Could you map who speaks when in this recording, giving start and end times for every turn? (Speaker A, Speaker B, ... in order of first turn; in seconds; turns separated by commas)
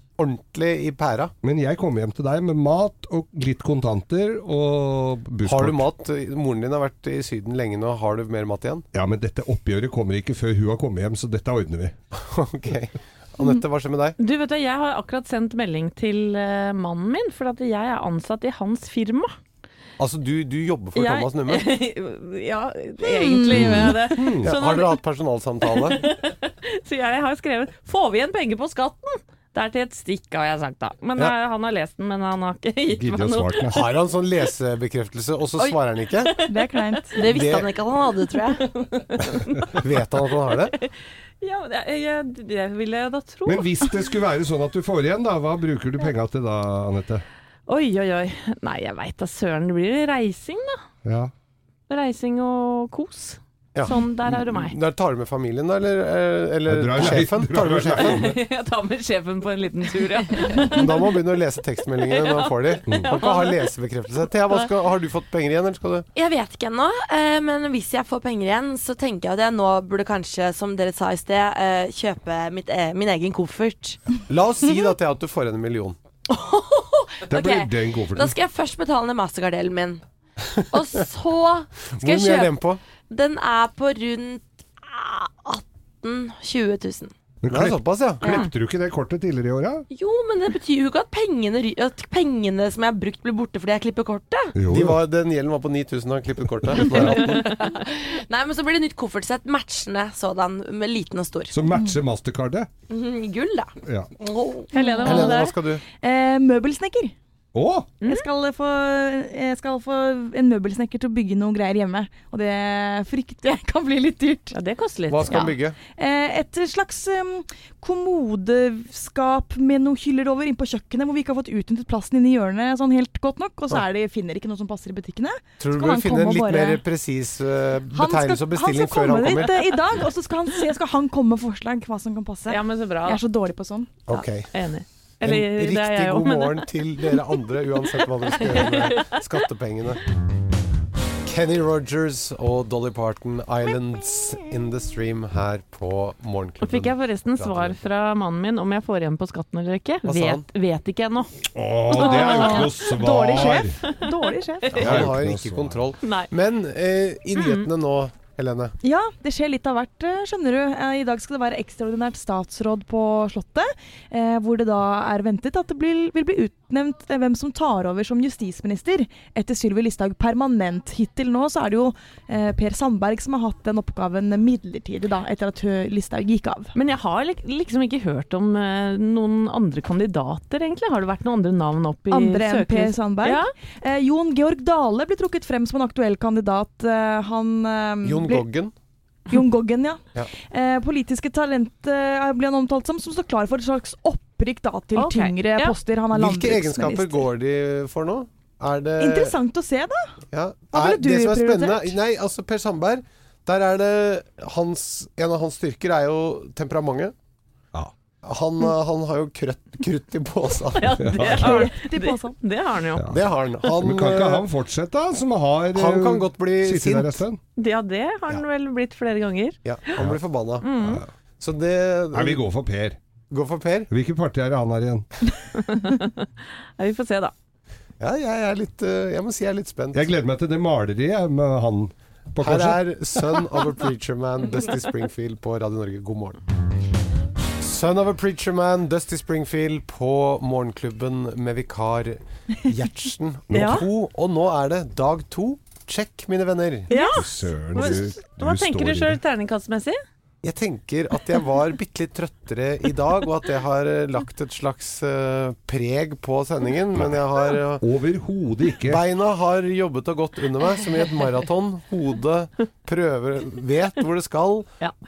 Speaker A: 0.2-1.3, Speaker B: 1.4-5.9, Speaker A: 5.4-8.8, Speaker B: 8.9-11.9, Speaker A: 12.1-14.2, Speaker C: 14.2-19.3, Speaker A: 20.0-21.6, Speaker C: 20.9-25.0, Speaker D: 23.0-23.7, Speaker B: 23.5-24.6, Speaker A: 24.4-26.0, Speaker C: 25.7-33.7, Speaker B: 32.9-33.8, Speaker A: 33.7-36.3, Speaker D: 36.4-37.2, Speaker E: 37.1-38.6, Speaker A: 37.3-37.7, Speaker C: 38.7-39.7, Speaker A: 39.8-40.7, Speaker C: 41.4-43.7, Speaker B: 43.5-47.2, Speaker C: 47.7-50.8, Speaker B: 51.0-51.3, Speaker C: 51.9-54.7, Speaker A: 53.7-58.3, Speaker B: 56.7-58.4, Speaker C: 58.0-61.0, Speaker A: 60.6-66.1, Speaker C: 62.0-63.7, Speaker B: 62.9-63.2, Speaker E: 66.1-74.0, Speaker A: 74.3-76.0, Speaker E: 76.3-80.0, Speaker B: 77.3-78.3, Speaker E: 80.7-82.5, Speaker A: 82.0-82.8, Speaker E: 83.1-87.1, Speaker B: 87.4-89.8, Speaker A: 87.5-88.2, Speaker E: 89.9-94.5, Speaker B: 94.5-95.0, Speaker A: 94.7-97.4, Speaker C: 96.9-97.4, Speaker E: 96.9-101.5, Speaker B: 101.5-102.7, Speaker E: 102.9-104.7, Speaker B: 103.8-104.1, Speaker D: 104.7-107.1, Speaker C: 104.7-105.5, Speaker A: 105.0-105.8, Speaker B: 107.5-107.9, Speaker C: 108.0-108.3, Speaker D: 108.0-114.5, Speaker C: 114.5-115.6, Speaker A: 115.1-115.8, Speaker D: 116.0-126.8, Speaker A: 125.6-129.5, Speaker D: 127.9-134.0, Speaker C: 132.5-133.2, Speaker A: 134.1-134.5, Speaker C: 134.1-137.2, Speaker A: 135.2-140.0, Speaker C: 138.4-139.2, Speaker A: 141.2-147.8, Speaker C: 146.6-151.3, Speaker A: 150.0-150.4, Speaker B: 151.5-153.8, Speaker D: 151.9-154.8, Speaker C: 151.9-155.1, Speaker A: 154.7-158.7, Speaker B: 154.8-155.8, Speaker C: 156.0-156.3, Speaker C: 157.3-157.7, Speaker D: 158.8-176.7, Speaker C: 176.7-183.5, Speaker D: 182.1-188.4, Speaker A: 188.0-188.7, Speaker D: 189.3-197.2, Speaker C: 194.9-195.7, Speaker A: 196.1-199.4, Speaker D: 199.0-200.1, Speaker A: 200.3-207.1, Speaker D: 200.7-201.9, Speaker A: 208.2-211.6, Speaker C: 210.8-213.1, Speaker B: 211.0-211.6, Speaker D: 211.3-212.4, Speaker B: 212.9-213.2, Speaker A: 213.1-214.4, Speaker B: 213.7-217.4, Speaker A: 215.7-217.2, Speaker C: 217.6-219.6, Speaker A: 219.6-220.6, Speaker C: 220.6-221.0, Speaker B: 220.8-221.1, Speaker A: 221.4-222.4, Speaker B: 222.1-223.0, Speaker A: 223.3-223.9, Speaker B: 223.9-225.1, Speaker C: 225.6-227.3, Speaker A: 228.0-230.1, Speaker B: 229.9-233.4, Speaker A: 232.4-236.4, Speaker A: 237.6-246.9, Speaker C: 243.5-243.8, Speaker C: 246.9-250.0, Speaker D: 246.9-247.2, Speaker B: 247.1-249.2, Speaker A: 250.4-257.8, Speaker B: 256.9-259.0, Speaker A: 258.9-264.7